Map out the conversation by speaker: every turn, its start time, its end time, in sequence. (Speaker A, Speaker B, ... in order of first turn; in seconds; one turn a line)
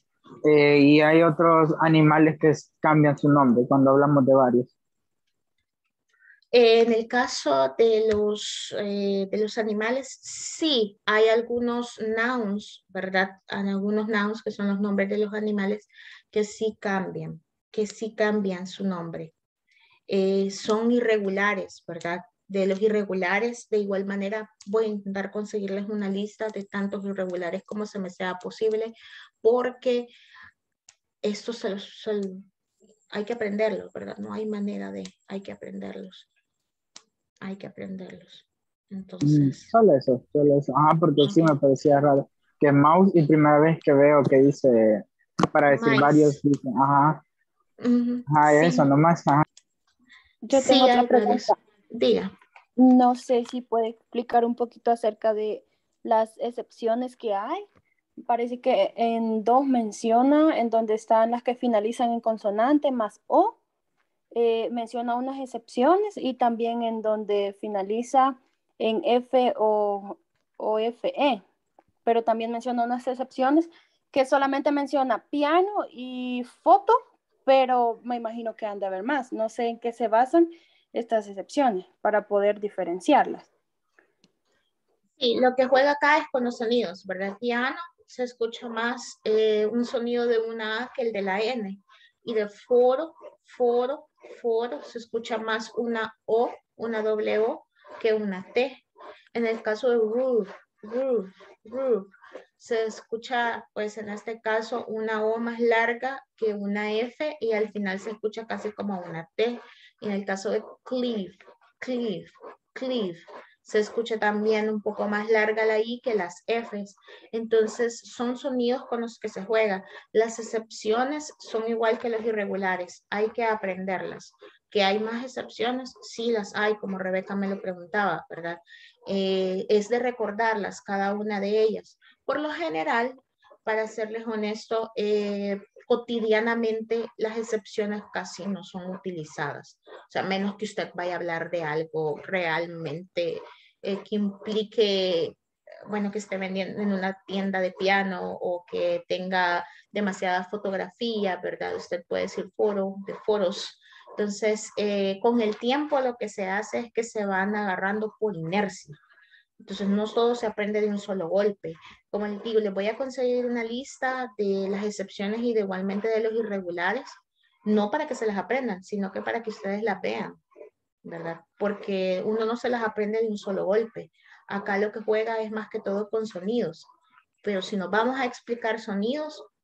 Speaker A: 0.5-4.7
Speaker B: 6.5-19.3
Speaker B: 20.1-30.1
Speaker B: 31.2-32.5
Speaker B: 33.1-36.3
Speaker B: 37.4-39.7
Speaker A: 39.2-47.2
Speaker B: 41.2-41.6
Speaker B: 45.7-46.4
Speaker B: 47.8-48.9
Speaker A: 48.3-49.4
Speaker C: 50.4-51.6
Speaker B: 50.5-52.3
Speaker C: 52.8-57.7
Speaker C: 58.3-63.6
Speaker C: 64.3-71.4
Speaker C: 72.0-83.5
Speaker B: 85.2-145.4
Speaker B: 145.9-159.0
Speaker B: 159.6-167.1
Speaker B: 167.7-170.4
Speaker B: 171.0-176.9
Speaker B: 177.4-179.5